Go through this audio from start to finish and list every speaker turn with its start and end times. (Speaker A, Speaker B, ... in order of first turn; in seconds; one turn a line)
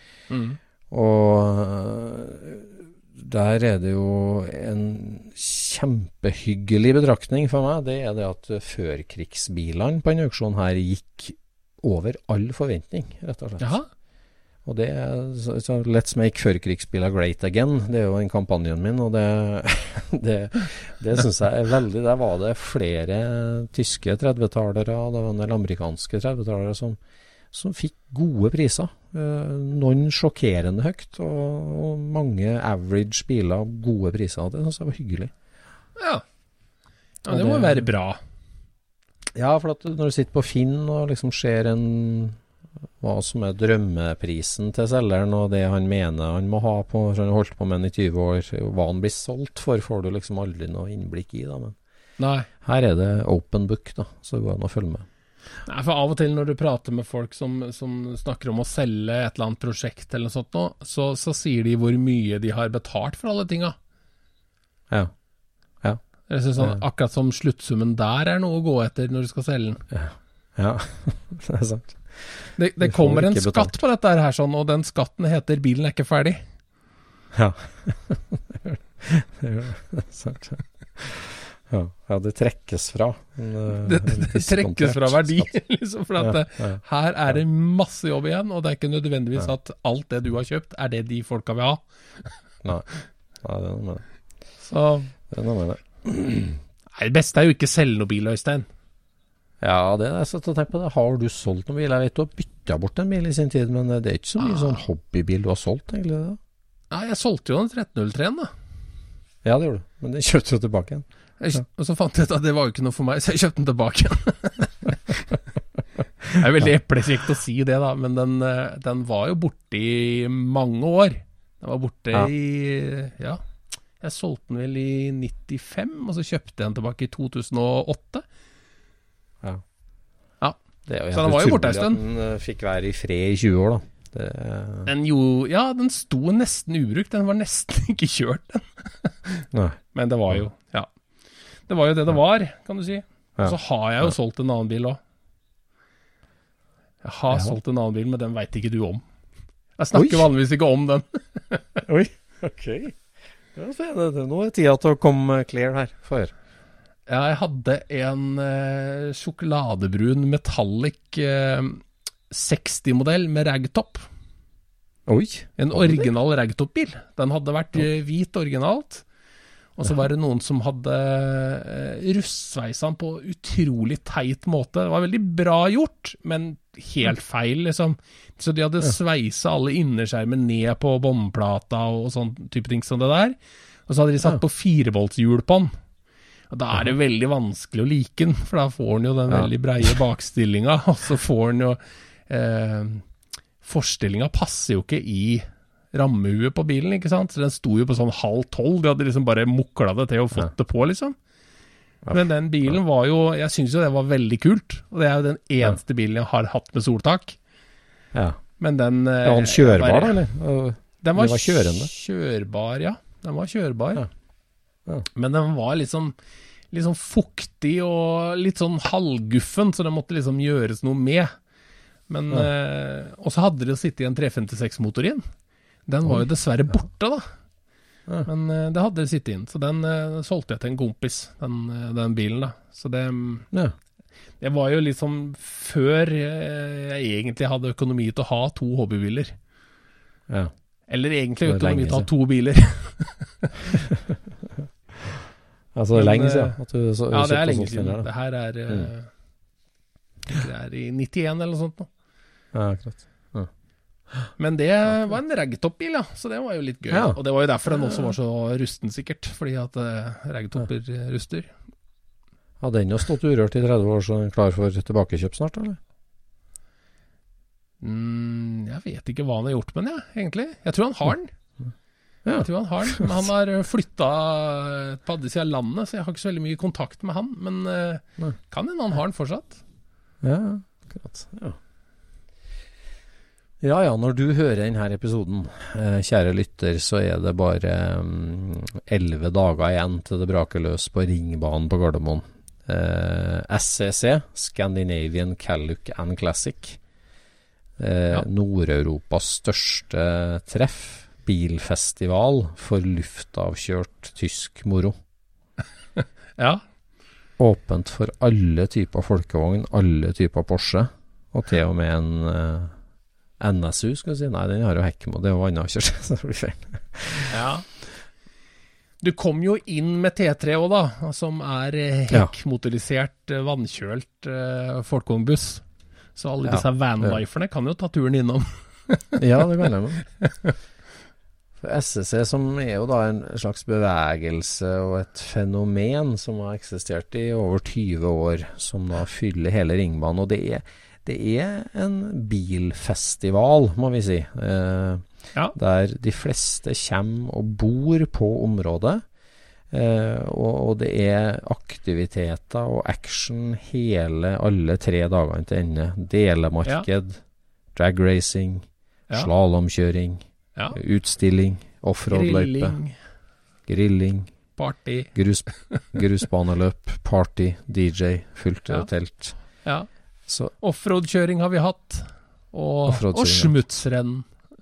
Speaker A: 0.3-0.6
Speaker B: 0.9-13.8
Speaker A: 13.6-13.9
Speaker B: 14.6-27.0
Speaker B: 27.5-35.3
Speaker A: 37.2-38.2
Speaker B: 37.3-37.9
Speaker B: 39.3-42.4
Speaker B: 43.0-51.8
Speaker A: 52.2-52.5
Speaker B: 52.6-55.0
Speaker A: 55.6-63.8
Speaker A: 66.3-69.8
Speaker B: 69.9-73.8
Speaker A: 72.6-76.4
Speaker B: 77.3-85.5
Speaker A: 83.8-92.3
Speaker B: 86.2-87.4
Speaker B: 93.4-94.0
Speaker A: 94.7-95.1
Speaker B: 95.3-96.6
Speaker A: 97.0-98.7
Speaker B: 99.6-106.4
Speaker A: 104.4-104.8
Speaker A: 106.9-108.5
Speaker B: 109.4-111.6
Speaker A: 111.4-115.2
Speaker A: 116.3-123.4
Speaker B: 116.5-116.7
Speaker A: 124.0-128.2
Speaker B: 130.8-134.9
Speaker A: 131.1-132.0
Speaker A: 134.8-140.9
Speaker B: 139.5-140.4
Speaker A: 141.7-145.0
Speaker B: 143.4-144.1
Speaker A: 147.0-149.0
Speaker B: 147.3-147.6
Speaker A: 149.8-151.8
Speaker B: 149.9-150.3
Speaker B: 151.8-153.0
Speaker B: 153.5-156.3
Speaker A: 157.1-164.1
Speaker B: 165.1-166.1
Speaker A: 165.6-169.0
Speaker A: 169.8-183.3
Speaker A: 183.9-185.7
Speaker A: 186.5-193.0
Speaker B: 189.3-189.9
Speaker A: 193.6-201.1
Speaker B: 202.0-202.8
Speaker A: 202.1-207.4
Speaker B: 208.1-208.4
Speaker A: 208.6-210.2
Speaker B: 209.2-211.9
Speaker A: 211.0-214.0
Speaker A: 215.1-216.1
Speaker A: 216.7-221.3
Speaker A: 222.1-225.3
Speaker A: 225.8-227.3
Speaker A: 228.2-233.5
Speaker A: 234.4-239.3
Speaker A: 240.9-243.5
Speaker B: 241.4-242.1
Speaker B: 245.7-248.1
Speaker A: 245.9-246.6
Speaker A: 247.1-249.1
Speaker A: 250.3-251.9
Speaker B: 252.5-253.5
Speaker A: 254.4-261.5
Speaker B: 254.9-255.2
Speaker B: 256.9-258.1
Speaker B: 262.6-265.8
Speaker A: 267.8-271.3
Speaker B: 272.2-273.2
Speaker A: 272.4-279.6
Speaker B: 280.2-281.6
Speaker B: 283.6-296.8
Speaker B: 297.8-304.9
Speaker A: 306.0-306.6
Speaker B: 307.4-312.7
Speaker B: 313.4-317.4
Speaker A: 317.3-317.6
Speaker A: 319.0-325.6
Speaker A: 326.1-329.2
Speaker B: 326.4-327.2
Speaker B: 329.2-330.0
Speaker A: 330.2-330.5
Speaker B: 331.6-349.0
Speaker B: 349.7-357.2
Speaker B: 357.7-362.8
Speaker A: 362.1-363.0
Speaker B: 363.7-364.3
Speaker A: 364.6-365.9
Speaker B: 365.1-369.4
Speaker B: 370.3-370.5
Speaker A: 370.6-374.2
Speaker B: 372.9-373.5